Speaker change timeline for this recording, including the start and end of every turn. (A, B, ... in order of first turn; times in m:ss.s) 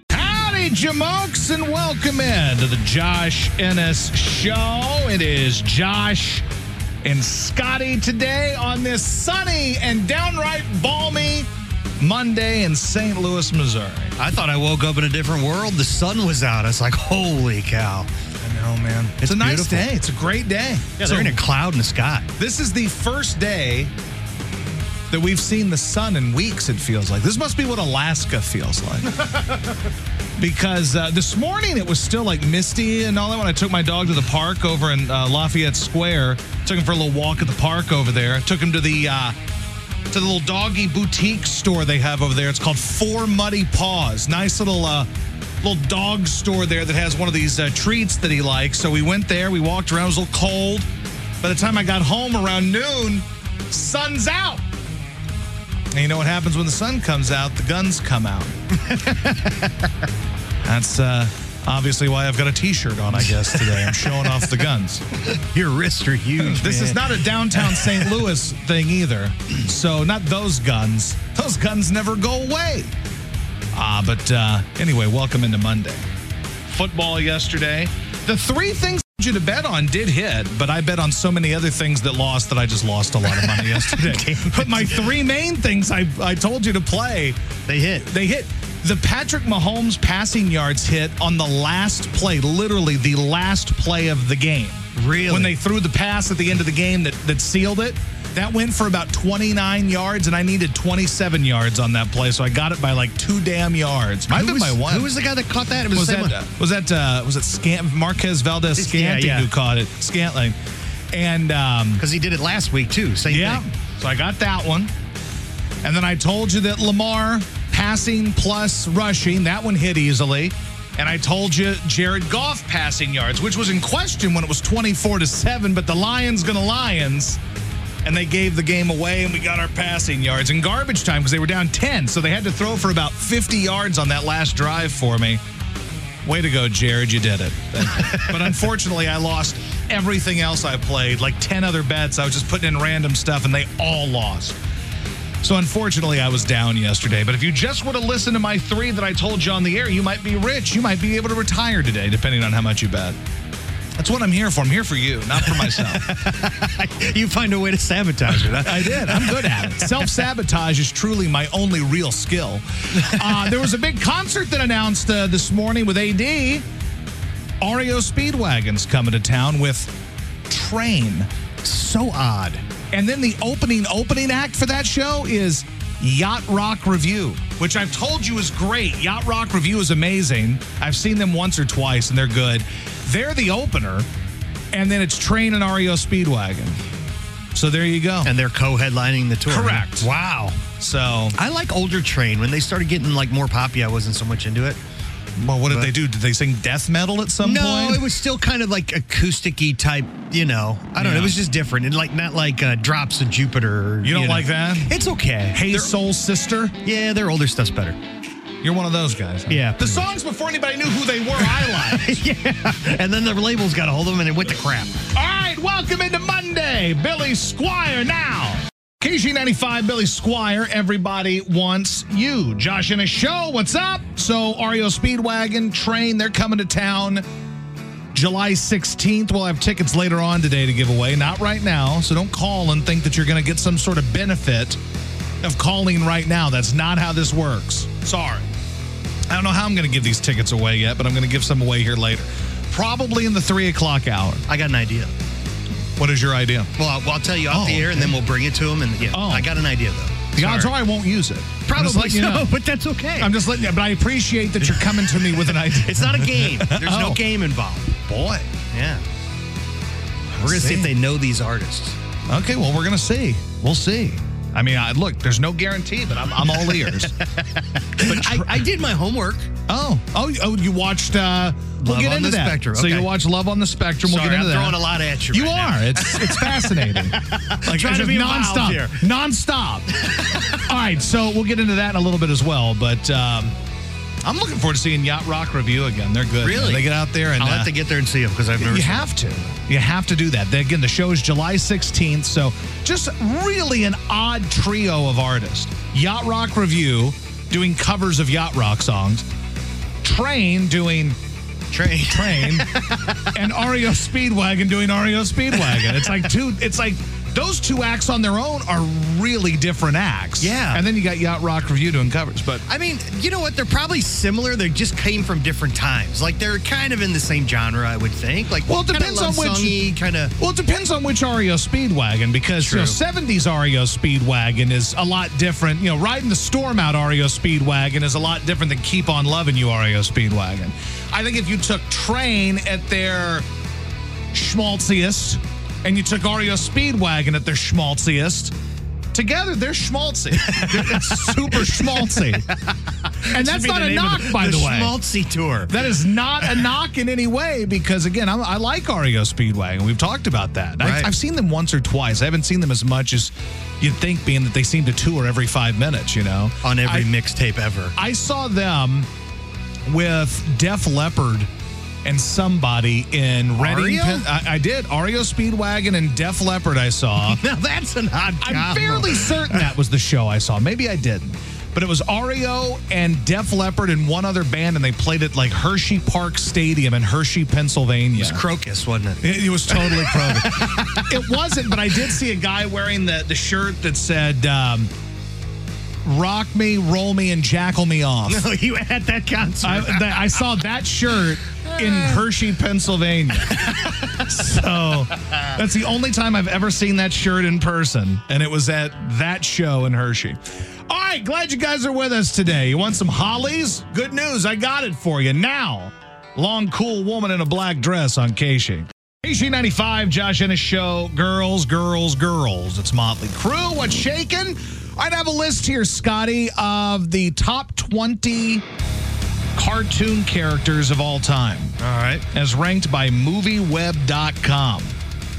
0:00.1-0:06.5 A
0:07.0-0:11.5 A
0:12.0-0:14.2 A
0:14.2-0:18.1 B
0:18.4-0:21.4 A
0:19.2-0:19.9 B
0:21.0-0:22.3 B
0:22.4-0:23.9 A
0:25.1-0:29.2 A
0:30.4-0:39.4 A
0:40.1-0:45.1 A
0:45.6-0:50.9 A
0:51.4-0:54.6 A
0:55.9-0:58.6 A
0:58.8-0:59.7 B
1:00.6-1:05.0 A
1:03.1-1:04.5 B
1:05.3-1:08.2 B
1:06.4-1:12.9 A
1:13.7-1:16.1 A
1:16.7-1:27.4 A
1:23.3-1:25.1 B
1:27.7-1:28.1 B
1:28.1-1:45.1 A
1:35.0-1:35.6 B
1:44.3-1:46.4 B
1:45.9-1:50.6 A
1:48.8-1:49.5 B
1:51.1-1:52.0 A
1:52.0-1:53.6 B
1:53.3-1:54.9 A
1:55.8-2:07.4 A
2:08.0-2:15.4 A
2:16.2-2:24.6 A
2:25.4-2:33.2 A
2:34.0-2:36.1 A
2:35.4-2:40.1 B
2:38.6-2:46.6 A
2:43.0-2:43.5 B
2:47.6-2:49.9 A
2:50.5-2:51.3 A
2:51.6-2:52.6 B
2:52.9-3:04.1 A
3:04.7-3:06.8 A
3:07.6-3:08.3 A
3:08.2-3:10.6 B
3:09.5-3:10.1 A
3:10.8-3:11.4 A
3:11.4-3:14.8 B
3:15.4-3:18.0 A
3:17.4-3:25.9 B
3:21.0-3:21.4 A
3:24.0-3:24.9 A
3:25.5-3:26.8 A
3:26.8-3:28.0 B
3:28.6-3:32.2 A
3:29.5-3:30.1 B
3:31.4-3:35.0 B
3:35.1-3:47.2 A
3:48.1-3:54.8 A
3:55.4-3:58.5 A
3:59.3-4:04.4 A
4:04.5-4:05.1 B
4:06.0-4:06.7 A
4:06.8-4:10.8 B
4:07.5-4:08.2 A
4:09.1-4:09.5 A
4:10.4-4:12.5 A
4:11.7-4:13.4 B
4:13.2-4:17.2 A
4:14.7-4:18.0 B
4:18.1-4:18.5 A
4:18.7-4:19.0 B
4:20.3-4:20.9 A
4:20.4-4:22.0 B
4:22.3-4:27.2 A
4:26.5-4:29.5 B
4:28.0-4:28.6 A
4:29.7-4:34.8 A
4:31.8-4:33.1 B
4:34.0-4:39.0 B
4:35.3-4:39.9 A
4:40.0-4:40.6 B
4:40.5-4:43.6 A
4:44.2-4:47.7 A
4:46.4-4:49.1 B
4:48.6-4:59.2 A
5:00.0-5:01.2 A
5:01.7-5:03.2 B
5:02.1-5:02.7 A
5:03.3-5:12.6 A
5:05.6-5:06.2 B
5:10.4-5:10.8 B
5:12.7-5:20.3 B
5:18.7-5:19.8 A
5:20.4-5:33.5 A
5:22.6-5:23.0 B
5:34.3-5:38.5 A
5:39.1-5:42.5 A
5:40.4-5:45.9 B
5:43.3-5:45.0 A
5:45.7-5:57.1 A
5:46.4-5:46.7 B
5:50.8-5:51.1 B
5:56.6-5:58.0 B
5:58.0-5:59.1 A
5:59.9-6:01.5 A
6:02.0-6:07.4 A
6:03.6-6:04.3 B
6:07.2-6:09.6 B
6:08.4-6:18.4 A
6:18.2-6:21.4 B
6:19.2-6:24.9 A
6:26.0-6:28.5 A
6:28.3-6:30.5 B
6:29.6-6:33.7 A
6:31.7-6:32.2 B
6:33.5-6:34.2 B
6:34.2-6:58.6 A
6:59.6-7:01.8 A
7:01.8-7:02.2 B
7:02.3-7:05.0 A